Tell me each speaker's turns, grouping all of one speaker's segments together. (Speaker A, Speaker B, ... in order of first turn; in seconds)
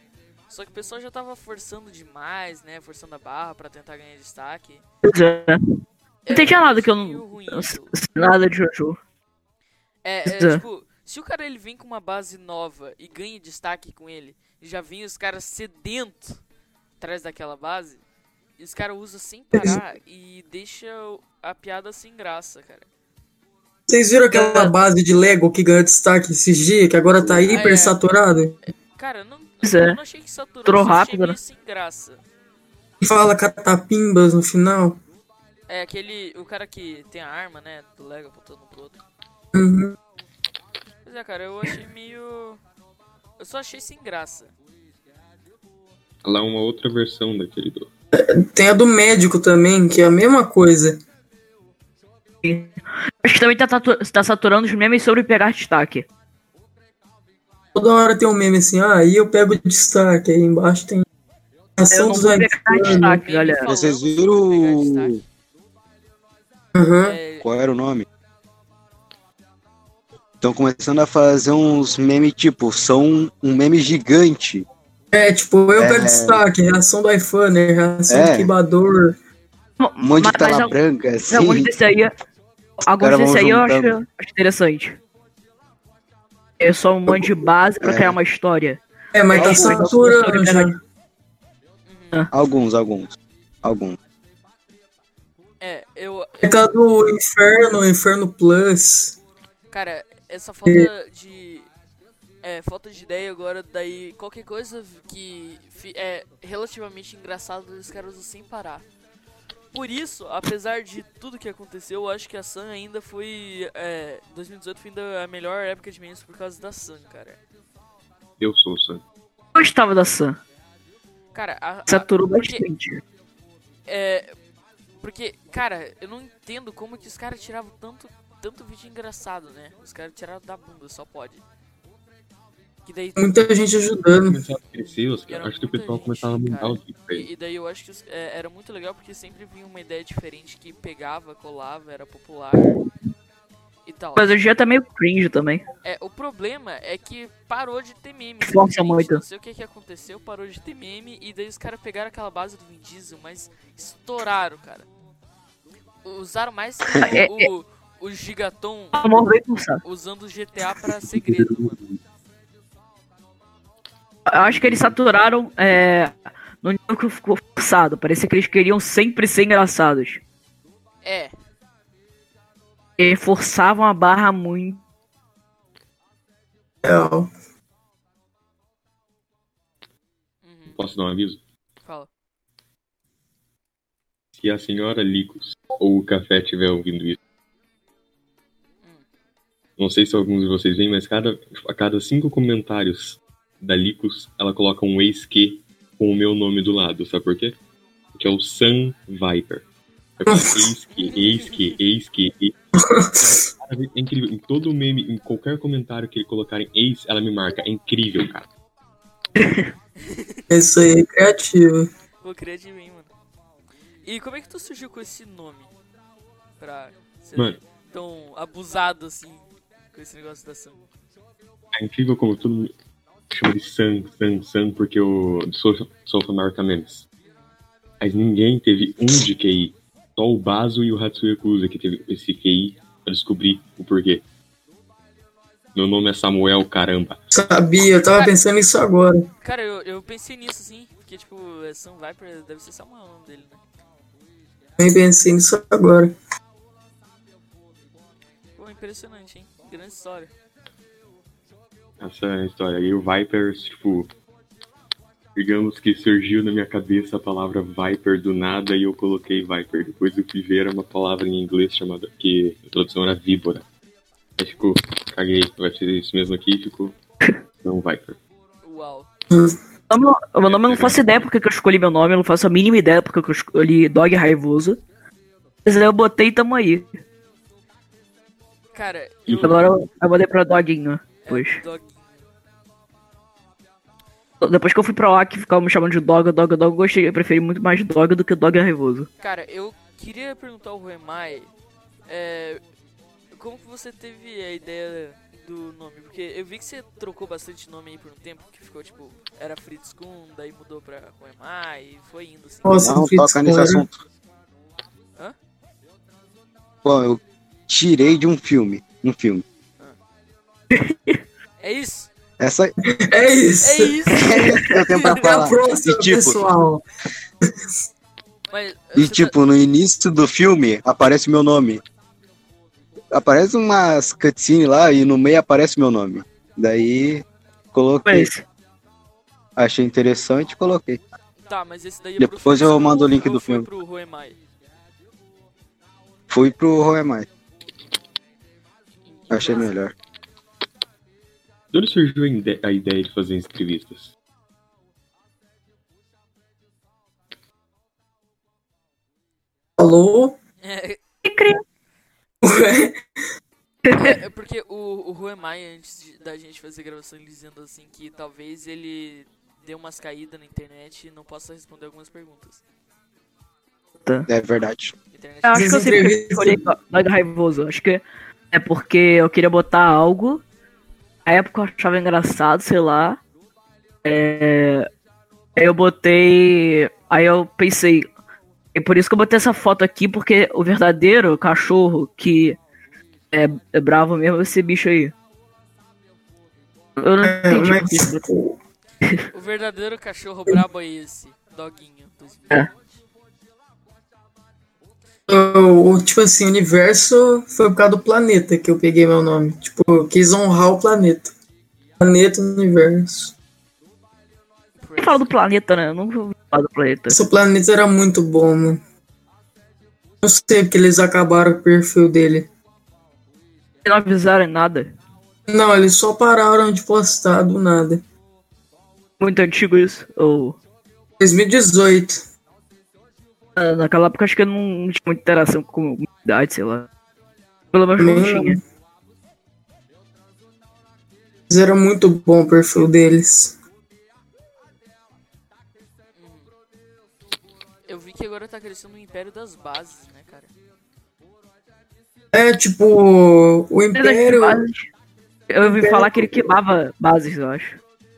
Speaker A: 0.5-4.8, 6.2-7.9, 10.0-16.4, 17.0-18.0, 18.6-22.9, 27.4-28.0, 28.7-32.2, 35.7-39.0, 41.0-42.6, 43.4-44.5, 62.8-65.2, 67.0-67.5, 91.8-92.2, 95.6-96.6, 99.7-101.7, 102.4-108.8, 109.7-117.4, 121.3-122.7, 123.8-124.3, 125.0-131.4, 132.8-133.5, 134.7-142.8, 143.8-144.4, 145.8-154.9, 156.0-159.2, 159.8-161.8, 171.0-171.3, 180.4-180.8, 181.8-182.1, 201.0-201.8, 210.0-210.4, 212.2-213.1, 214.0-215.7, 216.6-220.8, 239.4-243.6, 248.6-250.3, 268.6-269.1, 278.7-279.7, 281.2-282.2, 289.2-291.5, 292.1-292.6, 293.3-303.0, 311.6-312.1, 313.6-315.2, 318.5-319.3, 331.4-334.4, 339.0-339.7, 350.6-351.0, 353.9-362.6, 365.1-365.9, 389.3-393.0, 404.8-405.3, 436.1-436.5, 437.9-440.5
Speaker B: 5.1-5.6, 6.3-9.0, 10.3-10.6, 24.3-24.7, 29.6-30.0, 30.6-31.4, 52.4-56.0, 61.9-63.6, 79.8-80.7, 81.3-82.1, 82.8-85.0, 86.6-90.7, 119.5-120.4, 121.9-123.0, 144.2-145.6, 148.4-149.2, 157.0-157.5, 158.9-159.8, 164.3-170.2, 173.0-174.8, 209.4-209.7, 269.9-274.8, 275.6-276.9, 279.4-281.6, 284.4-289.1, 310.7-311.2, 328.0-328.4, 351.2-351.6, 353.9-354.1, 365.4-370.4, 371.2-373.2, 374.0-374.9, 375.6-378.1, 378.7-382.6, 383.3-385.1, 387.0-388.2, 405.0-407.1, 413.8-414.9, 419.2-420.6, 423.6-426.9, 427.7-428.6, 443.9-444.9, 445.5-447.8
Speaker C: 19.5-19.8, 23.9-28.6, 33.0-35.0, 39.5-40.0, 48.1-51.0, 57.7-61.0, 61.8-63.2, 66.7-67.2, 75.1-79.1, 89.1-90.7, 96.4-99.1, 133.2-134.4, 176.8-177.3, 200.2-200.7, 210.5-211.9, 237.3-239.3, 244.8-246.1, 302.6-303.8, 313.0-314.0, 315.1-316.8, 349.8-350.4, 352.4-353.0, 365.5-366.6, 387.2-388.6, 395.3-401.3, 402.0-403.3, 407.1-408.8, 410.2-412.5, 415.5-418.0, 421.2-422.2, 428.0-428.6, 431.5-433.6, 442.3-444.6, 445.6-446.4
Speaker D: 46.2-47.9, 118.4-119.0, 134.3-137.3, 164.5-164.9, 180.7-181.4, 184.4-187.2, 189.8-197.6, 198.1-199.6, 200.2-202.5, 203.1-208.5, 221.7-222.7, 223.3-227.1, 228.0-234.2, 235.7-237.2, 252.0-254.1, 255.3-263.6, 264.4-266.9, 267.6-268.2, 270.4-271.0, 279.3-279.7, 341.7-344.1
Speaker E: 63.6-65.2, 67.4-68.1, 70.4-74.7, 75.8-76.4, 78.1-78.5, 80.0-81.7, 83.0-84.0, 87.8-88.2, 92.3-94.0, 302.8-303.9, 306.8-309.4, 312.4-312.7, 314.1-316.4, 318.9-321.8, 323.1-328.3, 329.6-331.0, 332.2-333.7, 336.3-337.3, 339.3-339.9, 364.3-364.9